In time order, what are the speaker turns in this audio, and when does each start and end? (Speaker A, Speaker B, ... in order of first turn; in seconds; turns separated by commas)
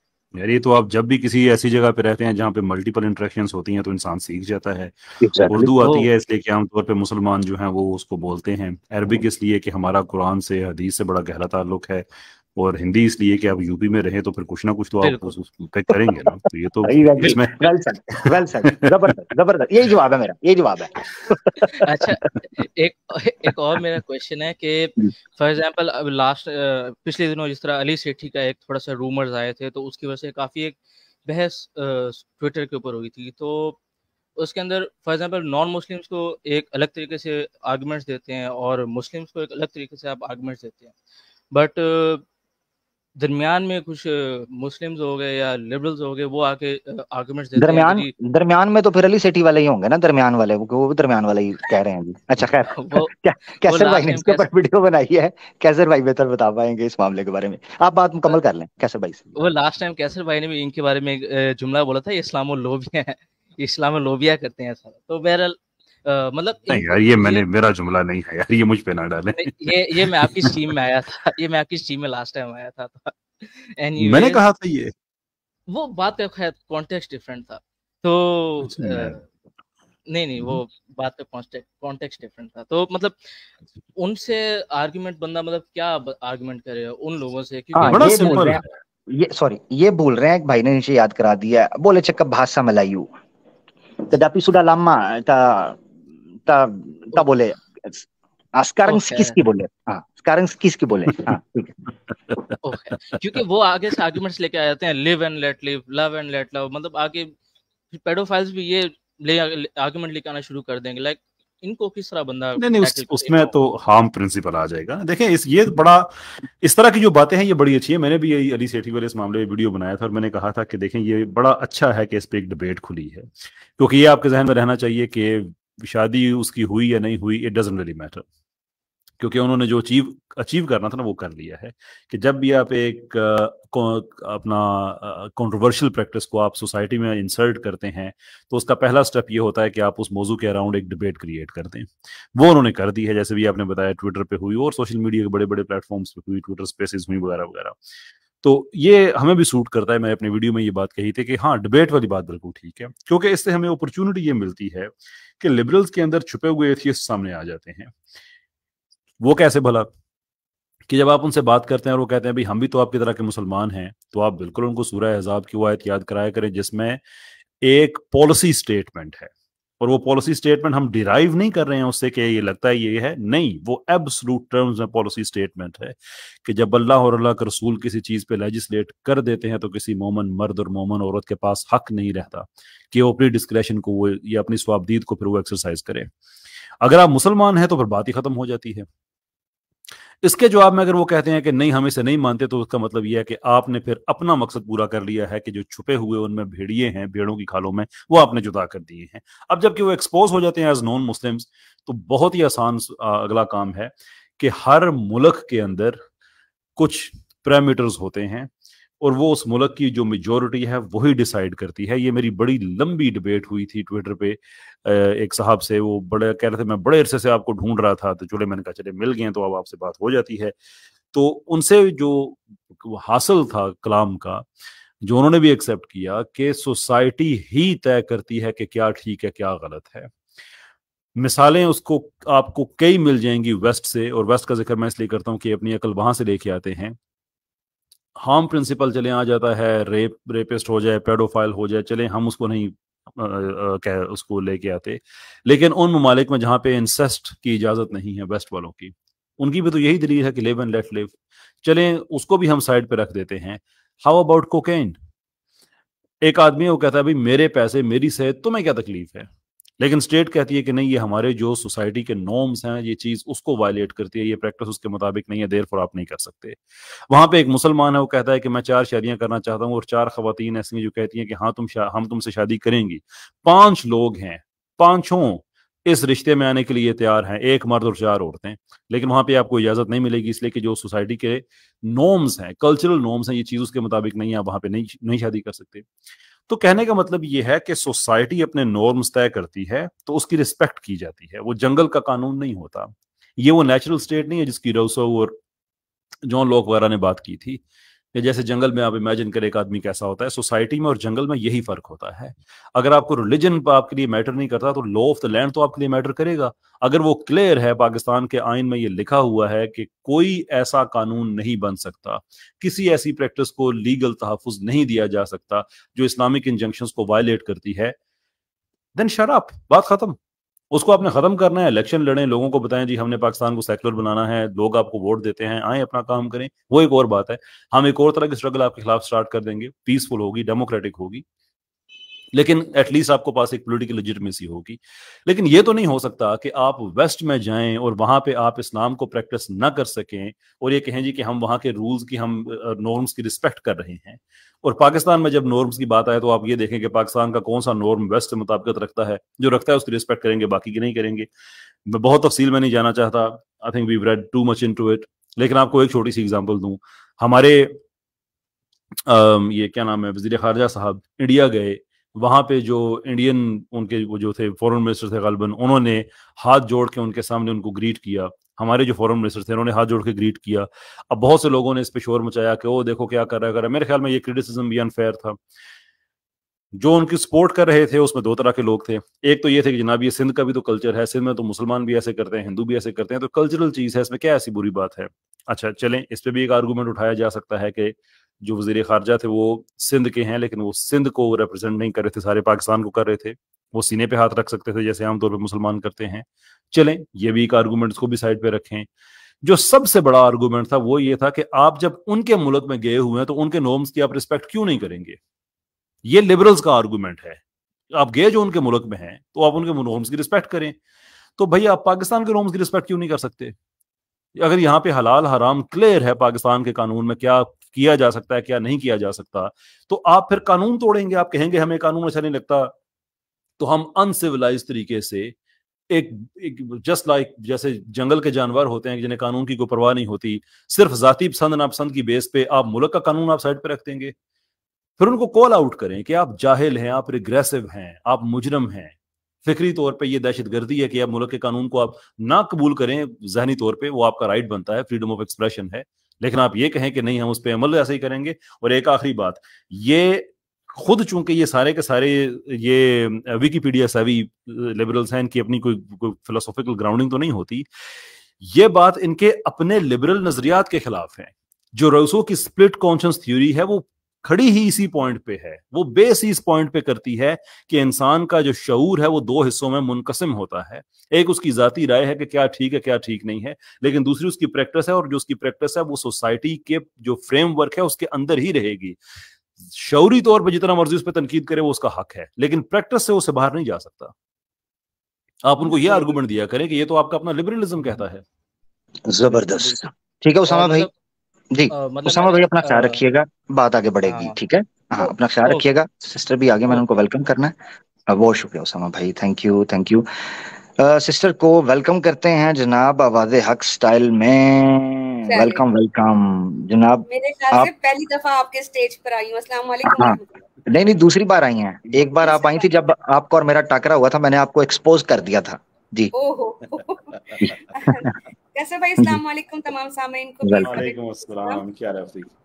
Speaker A: 0.3-17.6, Speaker B: 5.2-5.7, Speaker C: 5.8-6.1, Speaker C: 15.0-15.3, Speaker B: 16.8-22.1, Speaker C: 21.6-33.8, Speaker C: 34.4-40.9, Speaker C: 41.5-42.2, Speaker C: 43.2-48.1, Speaker B: 47.6-59.5, Speaker C: 52.7-53.1, Speaker C: 53.6-54.5, Speaker C: 59.4-67.5, Speaker A: 66.7-70.7, Speaker C: 69.3-74.4, Speaker A: 74.0-74.9, Speaker C: 75.7-79.2, Speaker A: 78.6-79.1, Speaker C: 80.1-83.2, Speaker C: 84.0-88.6, Speaker B: 87.7-93.1, Speaker A: 87.8-88.7, Speaker B: 94.1-95.8, Speaker B: 96.5-101.7, Speaker C: 98.9-99.4, Speaker C: 102.6-107.3, Speaker C: 107.9-113.5, Speaker A: 112.6-116.1, Speaker A: 116.6-128.2, Speaker A: 129.2-147.8, Speaker A: 148.4-157.9, Speaker A: 159.2-159.9, Speaker A: 160.9-167.0, Speaker A: 167.6-186.1, Speaker A: 186.8-188.9, Speaker A: 190.2-206.0, Speaker A: 206.8-208.5, Speaker A: 209.0-220.5, Speaker A: 221.1-224.4, Speaker A: 225.0-230.1, Speaker A: 231.2-237.0, Speaker A: 238.2-255.0, Speaker A: 256.2-285.9, Speaker A: 286.5-295.4, Speaker A: 296.2-297.6, Speaker A: 298.1-317.9, Speaker A: 318.9-320.2, Speaker A: 320.7-331.2, Speaker A: 332.3-351.3, Speaker A: 351.9-357.8, Speaker A: 359.1-375.4, Speaker A: 376.8-398.9, Speaker A: 399.4-405.2, Speaker A: 406.0-407.4, Speaker A: 407.9-410.8, Speaker A: 411.4-413.6, Speaker A: 414.4-422.7, Speaker A: 423.6-425.3, Speaker A: 425.9-434.1, Speaker A: 435.0-457.7, Speaker A: 458.4-479.0, Speaker A: 479.6-484.1, Speaker A: 485.4-488.2, Speaker C: 485.6-486.1, Speaker B: 489.1-490.9, Speaker C: 489.3-489.8, Speaker C: 490.5-490.9, Speaker B: 491.5-497.5, Speaker C: 491.7-493.0, Speaker C: 494.0-494.4, Speaker C: 495.0-495.6, Speaker C: 496.7-497.0, Speaker B: 498.1-500.1, Speaker B: 500.8-507.7, Speaker D: 505.3-505.6, Speaker D: 507.1-510.3, Speaker B: 509.8-516.1, Speaker D: 512.1-512.8, Speaker D: 516.1-521.6, Speaker A: 516.6-517.5, Speaker B: 517.4-518.2, Speaker B: 520.4-520.8, Speaker A: 520.6-522.3